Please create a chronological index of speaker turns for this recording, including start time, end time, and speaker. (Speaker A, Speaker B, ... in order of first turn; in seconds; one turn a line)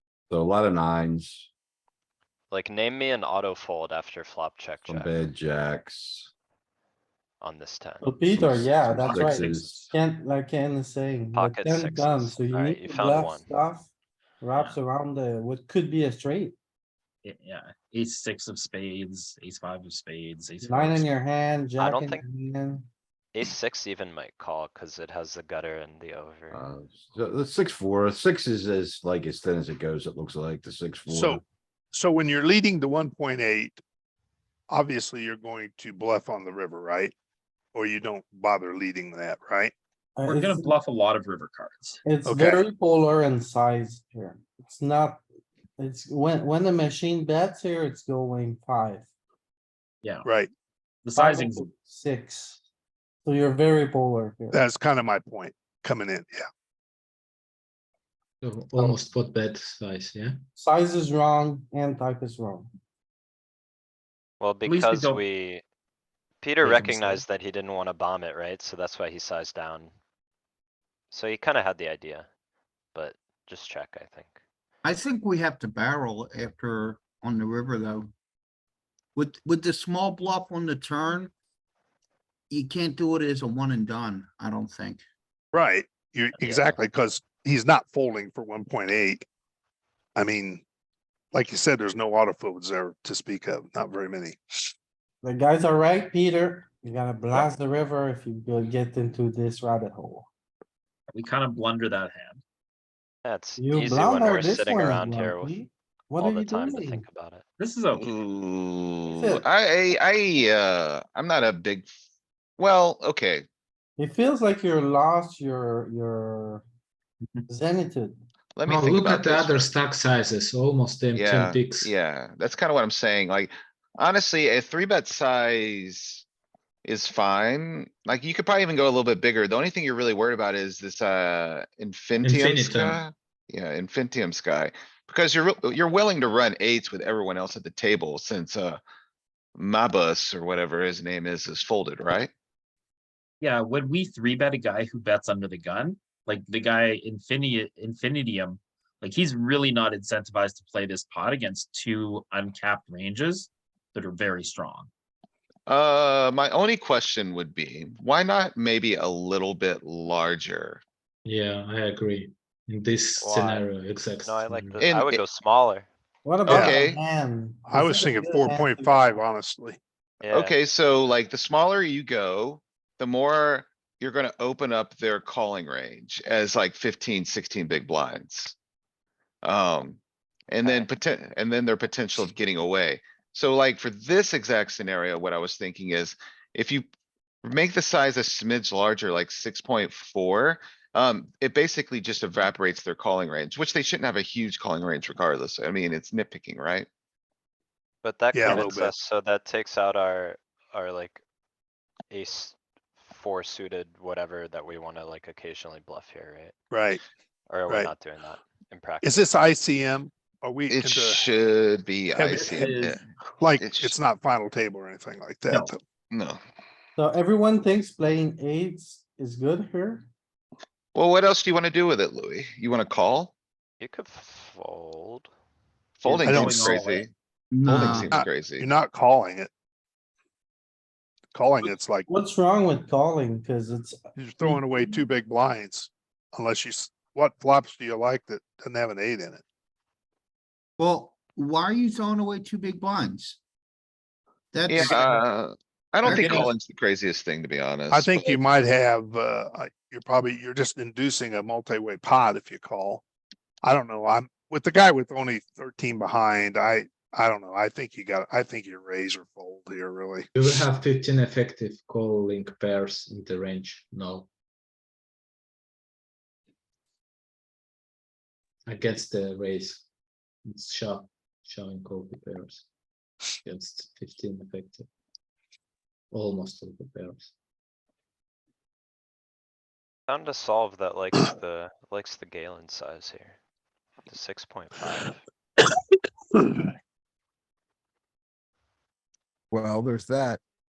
Speaker A: 0.3-1.5
Speaker B: 2.5-5.2
Speaker A: 4.9-6.3
Speaker B: 7.4-8.1
Speaker C: 8.0-13.9
Speaker A: 8.3-9.9
Speaker B: 11.3-13.5
Speaker C: 14.4-16.6
Speaker D: 17.2-21.1
Speaker C: 20.6-22.8
Speaker B: 21.8-22.2
Speaker B: 23.3-26.6
Speaker A: 26.5-31.4
Speaker E: 31.1-33.8
Speaker E: 34.7-37.1
Speaker E: 37.7-39.7
Speaker C: 40.2-40.7
Speaker D: 40.3-42.0
Speaker C: 42.1-45.2
Speaker E: 42.2-42.6
Speaker C: 45.8-49.0
Speaker D: 50.0-50.3
Speaker E: 50.2-50.5
Speaker D: 51.0-51.7
Speaker C: 51.8-52.6
Speaker C: 53.2-54.6
Speaker E: 54.5-56.5
Speaker F: 58.4-60.4
Speaker C: 60.6-62.7
Speaker B: 64.4-65.6
Speaker D: 64.7-65.2
Speaker B: 66.4-69.9
Speaker D: 66.6-67.2
Speaker B: 71.1-72.3
Speaker B: 72.9-74.4
Speaker G: 74.8-78.1
Speaker G: 79.2-81.3
Speaker G: 82.5-85.0
Speaker E: 85.5-89.3
Speaker D: 86.4-86.8
Speaker E: 90.2-90.6
Speaker E: 91.3-94.4
Speaker C: 95.2-100.2
Speaker D: 101.1-102.4
Speaker B: 103.2-105.6
Speaker C: 103.6-107.0
Speaker B: 106.2-107.4
Speaker D: 107.6-108.1
Speaker H: 107.9-111.9
Speaker H: 112.6-113.5
Speaker C: 114.0-116.7
Speaker C: 117.5-118.2
Speaker H: 118.5-119.7
Speaker F: 118.7-121.9
Speaker H: 121.1-126.2
Speaker H: 126.8-138.8
Speaker F: 132.2-133.0
Speaker H: 139.6-142.3
Speaker D: 143.4-154.9
Speaker H: 155.7-160.8
Speaker F: 161.2-164.8
Speaker B: 163.2-163.7
Speaker B: 164.2-165.9
Speaker H: 164.8-165.2
Speaker C: 166.3-169.0
Speaker E: 166.5-166.9
Speaker H: 166.5-167.0
Speaker E: 167.7-169.8
Speaker B: 170.2-170.6
Speaker H: 170.2-178.6
Speaker H: 179.4-186.8
Speaker H: 187.4-196.9
Speaker B: 198.0-201.2
Speaker E: 198.3-198.9
Speaker H: 198.5-198.8
Speaker B: 202.1-206.5
Speaker E: 206.7-207.0
Speaker B: 207.5-209.2
Speaker E: 209.0-211.2
Speaker H: 210.7-213.0
Speaker E: 212.1-215.8
Speaker D: 212.6-212.9
Speaker H: 213.6-214.0
Speaker H: 216.1-216.4
Speaker C: 217.0-220.1
Speaker H: 220.9-223.3
Speaker B: 223.8-225.3
Speaker H: 226.0-227.1
Speaker D: 226.1-227.1
Speaker E: 226.2-226.7
Speaker G: 227.5-228.1
Speaker H: 227.7-228.7
Speaker E: 227.9-229.5
Speaker E: 231.3-232.1
Speaker C: 232.1-233.9
Speaker E: 234.2-239.4
Speaker G: 234.4-234.8
Speaker G: 240.8-243.4
Speaker G: 244.5-245.2
Speaker H: 244.7-248.4
Speaker D: 246.0-246.5
Speaker G: 246.0-246.5
Speaker E: 247.9-253.0
Speaker E: 253.6-260.3
Speaker F: 260.4-264.3
Speaker F: 268.7-269.8
Speaker F: 270.4-272.7
Speaker F: 273.4-274.9
Speaker F: 276.1-277.3
Speaker B: 280.1-283.4
Speaker B: 284.1-285.2